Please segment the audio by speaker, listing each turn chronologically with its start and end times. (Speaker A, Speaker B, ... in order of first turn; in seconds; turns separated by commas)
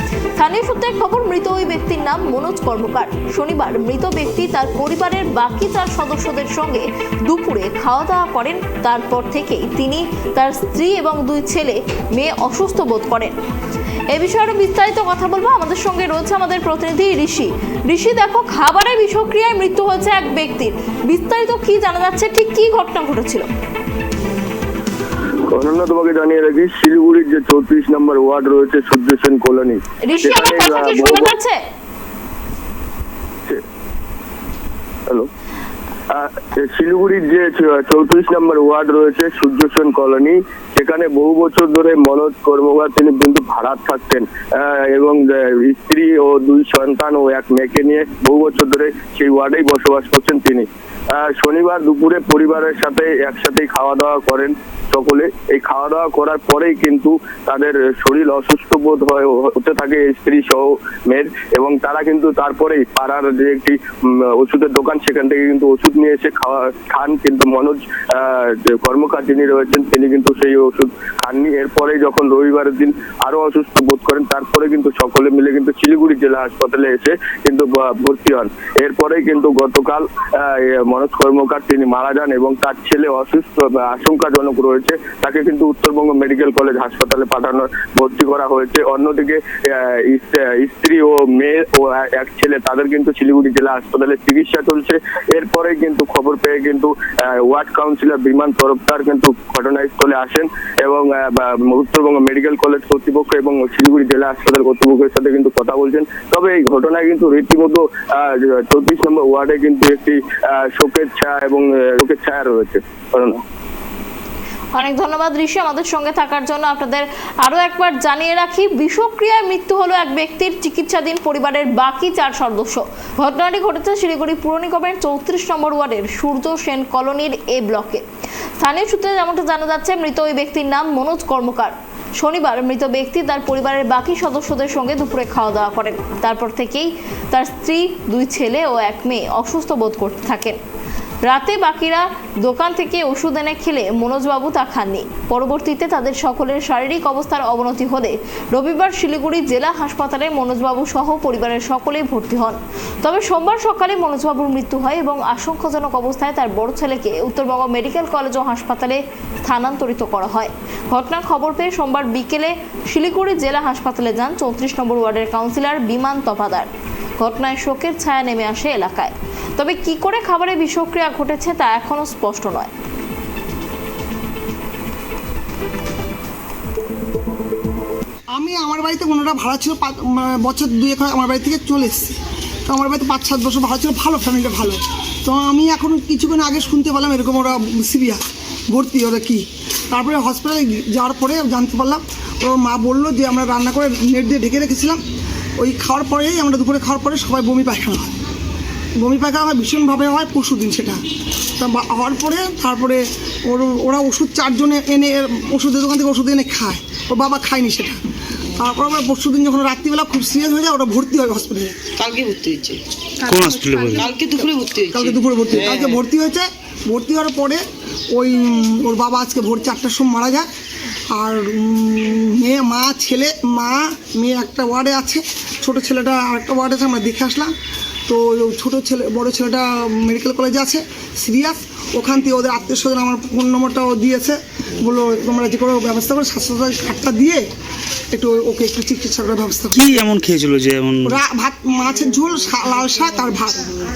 Speaker A: 0.3-13.3, Speaker A: 14.1-23.5, Speaker B: 25.5-31.3, Speaker A: 30.0-31.6, Speaker B: 36.1-113.4, Speaker A: 114.7-128.0, Speaker A: 128.6-140.6, Speaker A: 141.2-166.7, Speaker A: 167.2-172.7, Speaker C: 178.3-182.2, Speaker C: 182.7-195.0, Speaker C: 195.6-198.1, Speaker C: 199.0-201.0, Speaker C: 201.6-208.0, Speaker C: 208.5-211.8, Speaker D: 211.9-212.8, Speaker E: 213.3-214.1, Speaker D: 213.9-216.0, Speaker C: 214.9-217.6, Speaker C: 218.1-220.5, Speaker C: 221.1-227.5, Speaker C: 228.1-237.4, Speaker C: 238.1-239.9, Speaker E: 239.7-241.2, Speaker C: 241.1-243.7